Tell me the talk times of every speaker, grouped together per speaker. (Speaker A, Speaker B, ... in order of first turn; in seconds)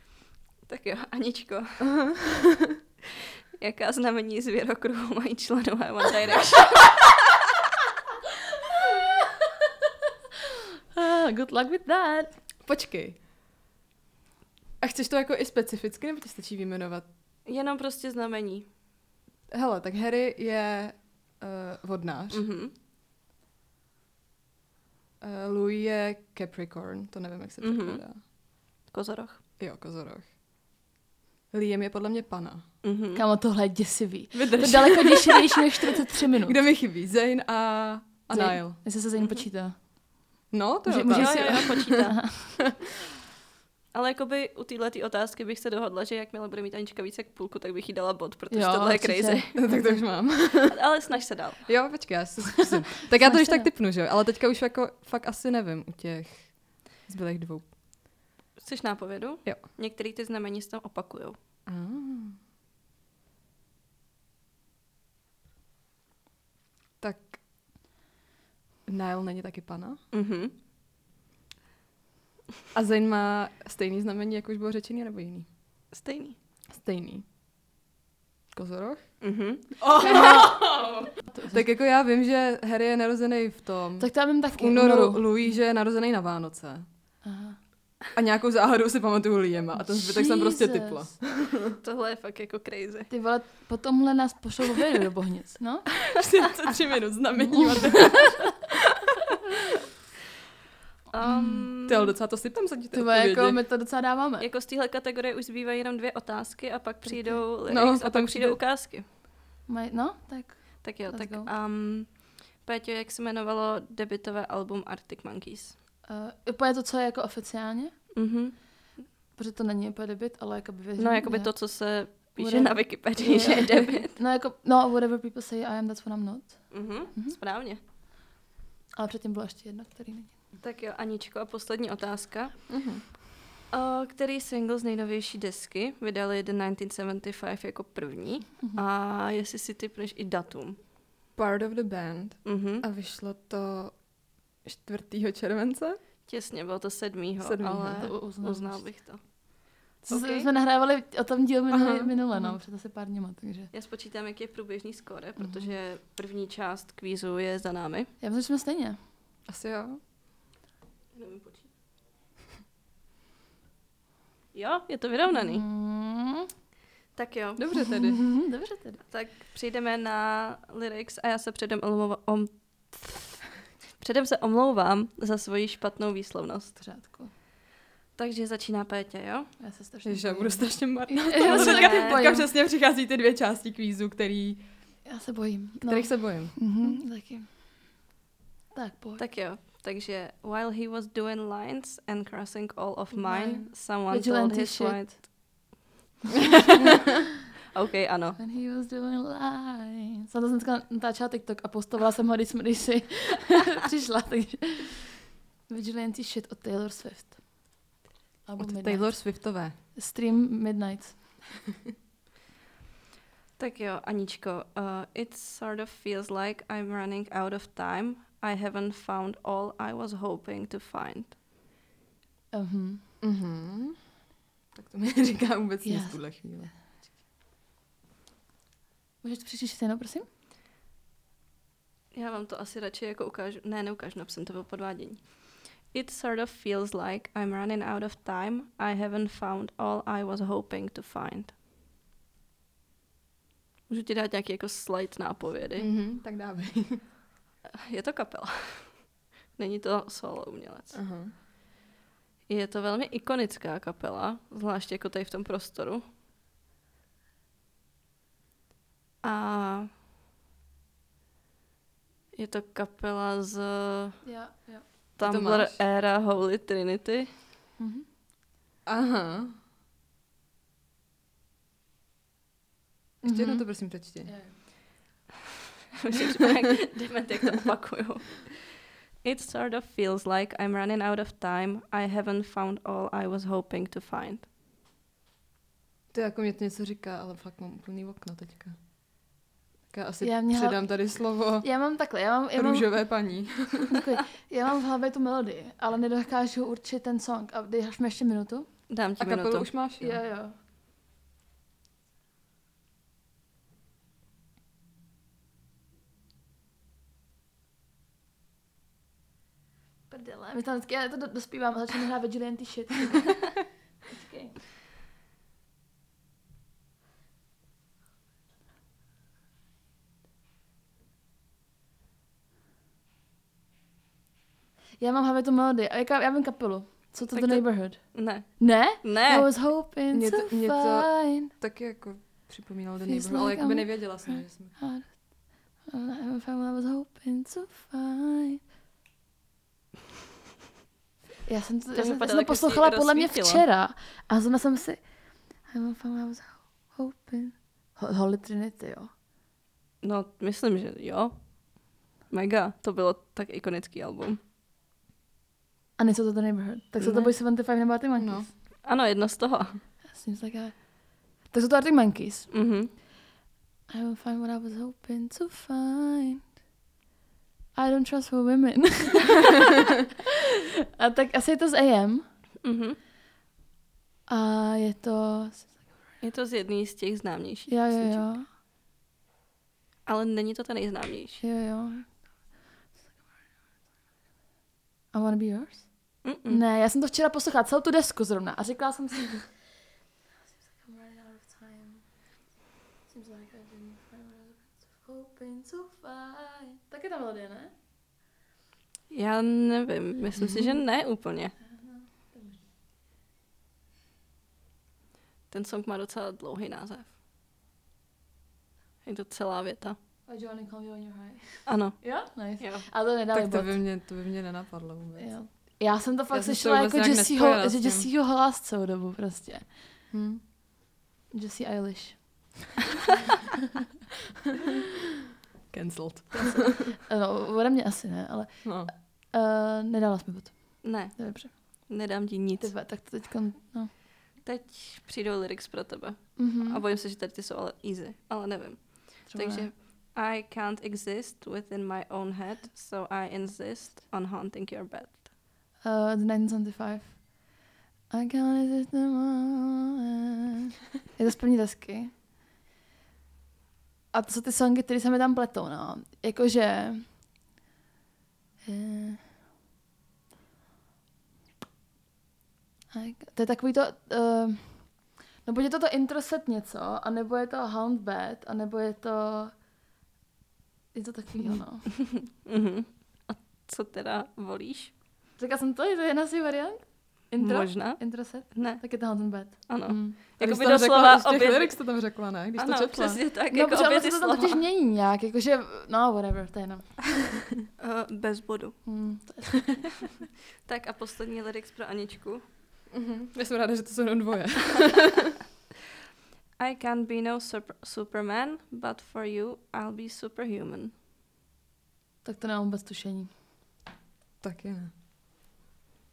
Speaker A: 0.7-2.0, 3.6-7.1, 17.4-18.7, 22.3-22.7, 27.6-29.4, 32.8-33.2, 39.2-39.4, 41.1-42.6, 43.9-51.7, 58.6-61.4, 70.1-70.5, 75.9-76.4, 79.2-80.3, 91.8-93.1, 101.1-102.1, 104.4-109.0, 110.8-115.8, 118.1-118.6, 121.0-124.2, 126.7-127.8, 130.6-132.7, 133.7-140.8, 142.4-142.8, 146.2-150.5, 153.7-158.1, 161.1-161.7, 164.5-165.6, 167.1-167.9, 169.1-176.8, 178.1-179.6, 181.4-182.3, 189.2-195.6, 197.7-198.4, 213.6-221.3, 232.1-241.5, 243.9-245.9, 247.8-251.0, 252.5-256.0, 259.2-259.9, 262.3-264.2, 265.2-267.4, 276.0-284.4, 298.9-299.7, 327.3-329.5, 341.9-343.6, 350.0-354.4, 357.0-357.3, 358.8-359.8, 362.5-362.9, 372.6-373.0, 376.2-378.4, 380.1-381.4, 386.2-386.6, 399.1-401.6, 405.5-407.1, 409.0-410.0, 411.6-412.9, 430.8-432.8, 434.4-445.3, 472.0-474.9, 477.4-484.6, 487.8-489.0, 490.6-492.4, 496.6-500.9
Speaker B: 1.9-2.7, 12.6-13.2, 14.8-17.1, 19.5-22.4, 25.2-28.2, 29.6-30.3, 31.5-32.6, 34.3-35.5, 36.4-38.8, 40.5-42.2, 49.5-50.7, 51.6-57.8, 61.6-62.4, 67.0-67.4, 68.8-70.0, 72.7-75.5, 76.7-77.2, 78.5-86.8, 88.1-91.8, 96.2-98.7, 101.8-103.6, 107.7-108.6, 132.7-133.0, 141.3-146.0, 147.4-148.1, 151.7-152.5, 159.5-160.0, 167.6-168.2, 180.0-184.6, 185.8-186.9, 208.6-209.7, 223.2-224.0, 224.7-226.7, 245.8-247.0, 250.9-251.3, 265.2-265.8, 268.9-269.5, 273.2-274.4, 286.1-288.8, 289.9-291.9, 292.5-294.0, 299.2-300.2, 330.1-334.8, 358.2-358.5, 400.4-400.7, 413.3-415.8, 416.3-418.1, 420.1-420.4, 425.7-426.9, 428.6-428.9, 480.4-483.2, 492.9-495.2, 504.4-504.9
Speaker C: 10.9-12.4, 33.1-36.6, 38.3-39.9, 40.9-42.6, 48.5-50.0, 53.2-53.7, 80.0-81.6, 84.0-85.5, 87.2-87.6, 89.8-91.1, 93.1-96.2, 97.3-98.2, 101.2-101.7, 102.9-104.5, 107.0-107.4, 109.7-111.5, 116.0-117.9, 119.3-127.3, 128.9-130.4, 148.0-148.9, 150.1-153.7, 155.4-155.7, 158.2-159.0, 165.3-166.5, 167.8-169.0, 176.8-177.3, 179.6-182.5, 185.0-187.6, 188.7-189.2, 193.1-195.3, 198.4-207.4, 208.4-211.3, 222.5-223.0, 225.8-226.7, 229.2-230.3, 264.2-264.9, 267.8-268.1, 273.2-274.6, 290.2-298.7, 300.0-300.6, 310.1-314.6, 325.0-331.5, 333.0-338.6, 341.4-349.1, 356.0-358.5, 360.1-363.0, 363.9-366.5, 367.7-369.8, 371.0-372.3, 374.3-376.0, 377.7-378.5, 381.4-382.2, 385.1-389.7, 390.5-392.1, 393.1-397.7, 401.6-402.6, 410.3-413.8, 415.2-420.0, 421.3-422.6, 427.0-431.9, 432.6-433.9, 436.4-436.8, 439.3-439.7, 445.8-452.1, 454.1-457.2, 458.6-459.3, 462.9-469.6, 470.9-472.1, 475.4-480.2, 483.5-487.4, 488.8-490.2, 502.2-503.3